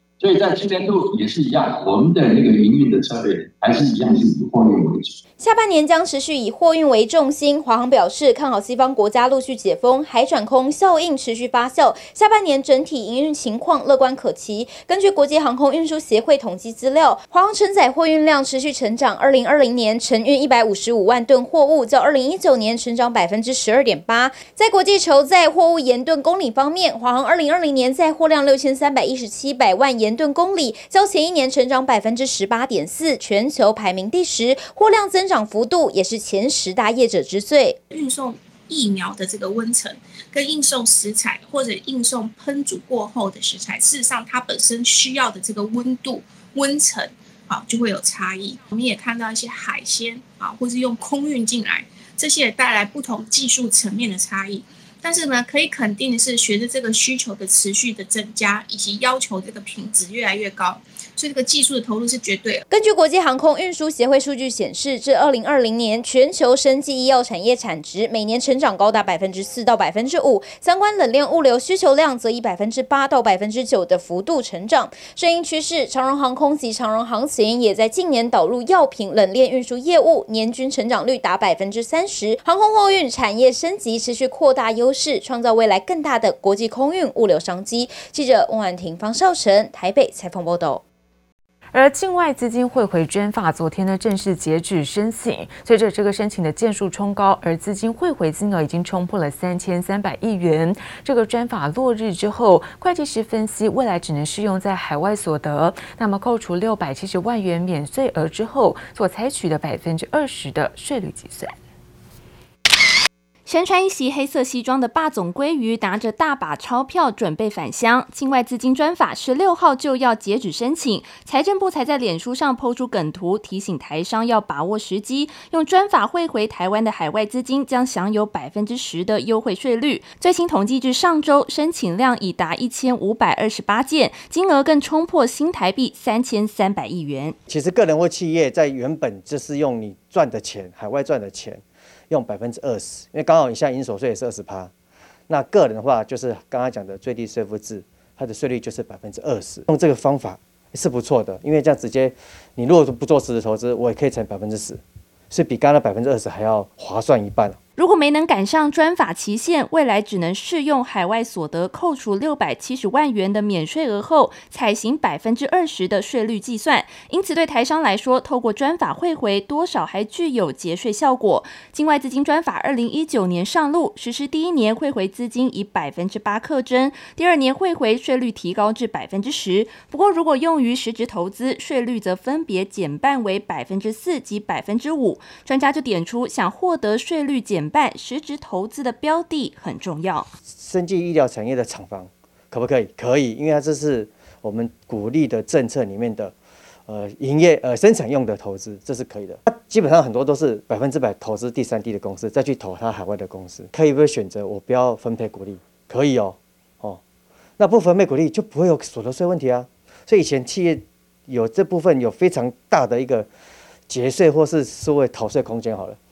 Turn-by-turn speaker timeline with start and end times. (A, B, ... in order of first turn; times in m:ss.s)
0:00.2-0:05.1 A
0:05.4-0:37.8 B
0:37.9-1:02.6 C
1:02.7-1:30.8 B
1:31.7-1:51.5 D
1:53.5-2:17.4 E
2:17.5-2:24.7 F
2:25.3-2:37.6 F
2:37.8-3:10.3 E
3:10.6-3:16.3 F
3:16.9-3:27.0 F
3:27.6-3:33.3 F
3:33.9-3:36.0 F